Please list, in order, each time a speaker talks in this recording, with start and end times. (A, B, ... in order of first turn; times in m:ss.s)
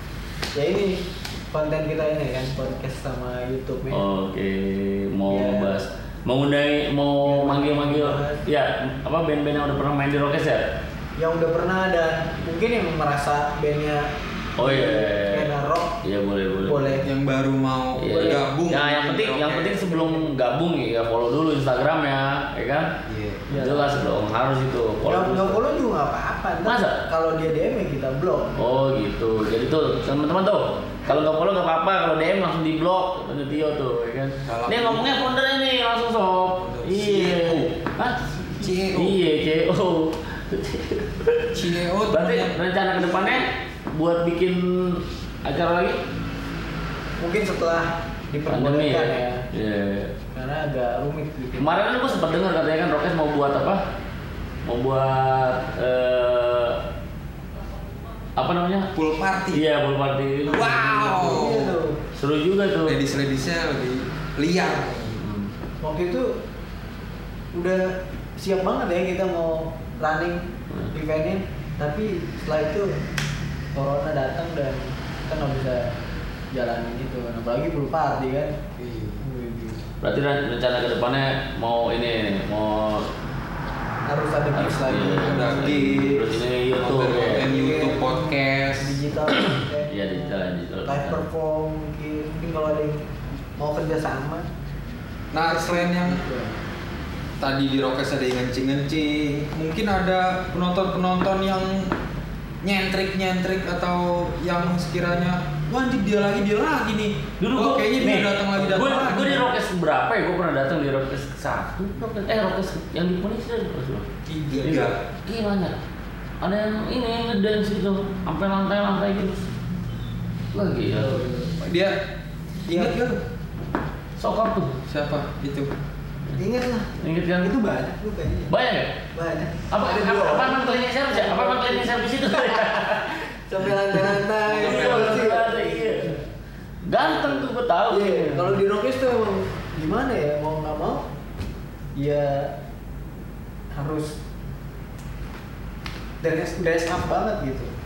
0:00.5-0:04.0 A
0:03.9-0:10.7 B
0:05.3-0:05.8 A
0:07.2-0:08.4 A
0:11.2-0:16.0 A
0:14.6-0:15.5 B
0:16.0-0:17.0 B
0:16.6-0:17.0 A
0:17.0-0:19.8 C
0:18.0-0:22.9 B
0:19.8-0:20.3 A
0:23.0-0:23.5 C
0:23.5-0:24.0 A
0:23.5-0:25.6 B
0:25.0-0:28.5 A
0:26.6-0:27.0 B
0:28.6-0:46.0 B
0:34.4-0:35.3 C
0:36.6-0:37.7 C
0:38.6-0:39.2 C
0:41.5-0:42.6 C
0:47.2-0:49.4 A
0:48.5-0:50.1 B
0:50.3-0:52.4 A
0:51.6-0:53.8 B
0:54.6-0:56.8 B
0:58.4-0:58.9 B
0:58.9-0:59.6 C
0:59.5-1:01.5 B
1:00.5-1:02.0 A
1:00.5-1:01.8 C
1:02.1-1:03.0 B
1:02.8-1:05.2 C
1:05.2-1:05.5 B
1:05.8-1:06.3 A
1:07.5-1:13.0 A
1:13.7-1:15.9 A
1:16.5-1:18.6 A
1:18.8-1:19.2 C
1:19.2-1:19.8 A
1:20.0-1:23.1 B
1:24.0-1:26.0 A
1:24.5-1:27.5 B
1:25.0-1:29.0 C
1:27.2-1:34.5 A
1:29.3-1:31.2 B
1:35.3-1:36.2 C
1:35.3-1:36.6 A
1:37.4-1:41.9 C
1:42.6-1:49.5 C
1:47.4-1:54.1 B
1:54.3-1:55.0 C
1:54.6-1:55.7 B
1:56.4-1:59.5 B
2:00.5-2:01.2 B
2:00.9-2:01.6 A
2:01.6-2:02.0 C
2:02.6-2:03.2 C
2:02.7-2:03.0 A
2:04.2-2:04.7 B
2:04.9-2:05.7 C
2:06.4-2:08.5 A
2:07.0-2:07.5 B
2:08.5-2:09.0 B
2:09.1-2:16.3 A
2:09.7-2:13.2 B
2:13.9-2:16.2 B
2:14.5-2:15.3 C
2:16.8-2:18.6 B
2:17.0-2:21.1 A
2:21.9-2:22.6 A
2:23.7-2:24.2 A
2:26.2-2:27.7 A